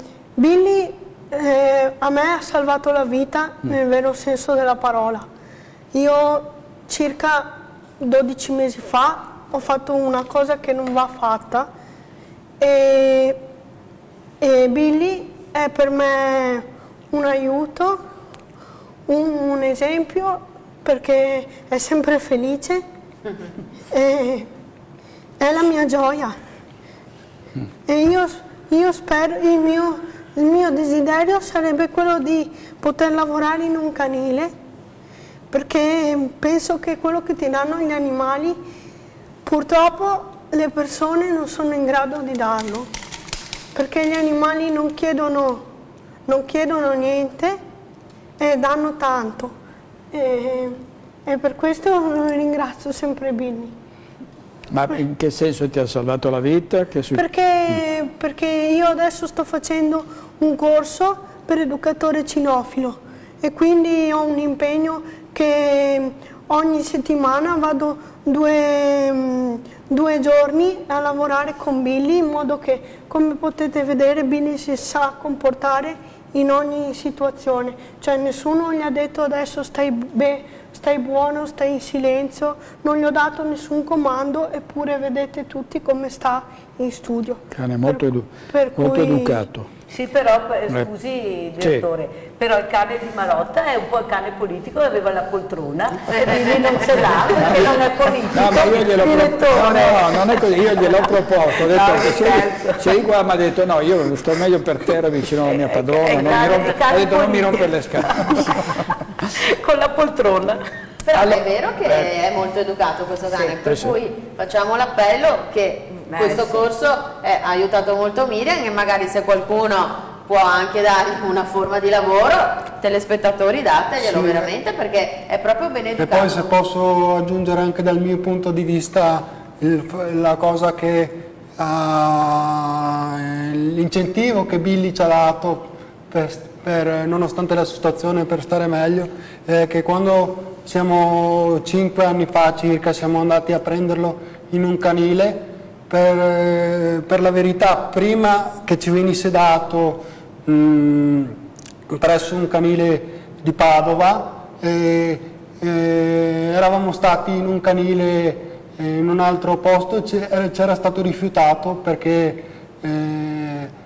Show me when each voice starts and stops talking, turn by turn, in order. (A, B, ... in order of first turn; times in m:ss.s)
0:00.4-0:05.3 A
0:05.9-0:11.7 A
0:12.6-0:13.4 A
0:14.4-0:18.0 A
0:19.1-0:22.8 A
0:23.9-0:24.5 A
0:25.4-0:26.4 A
0:27.9-0:34.5 A
0:35.5-0:38.6 A
0:39.4-0:42.9 A
0:43.7-0:45.6 A
0:46.3-0:47.6 A
0:48.4-0:49.5 A
0:50.1-0:53.7 A
0:54.7-0:57.8 B
0:57.1-1:29.4 A
1:27.5-1:29.7 B
1:29.9-1:43.0 C
1:31.6-1:31.9 B
1:37.4-1:37.7 B
1:38.3-1:48.7 B
1:45.5-1:48.6 C
1:49.4-1:50.6 C
1:51.0-2:06.5 D
1:53.6-1:53.9 B
1:56.1-1:56.7 C
2:04.0-2:04.5 E
2:06.0-2:31.4 E
2:31.9-2:43.7 E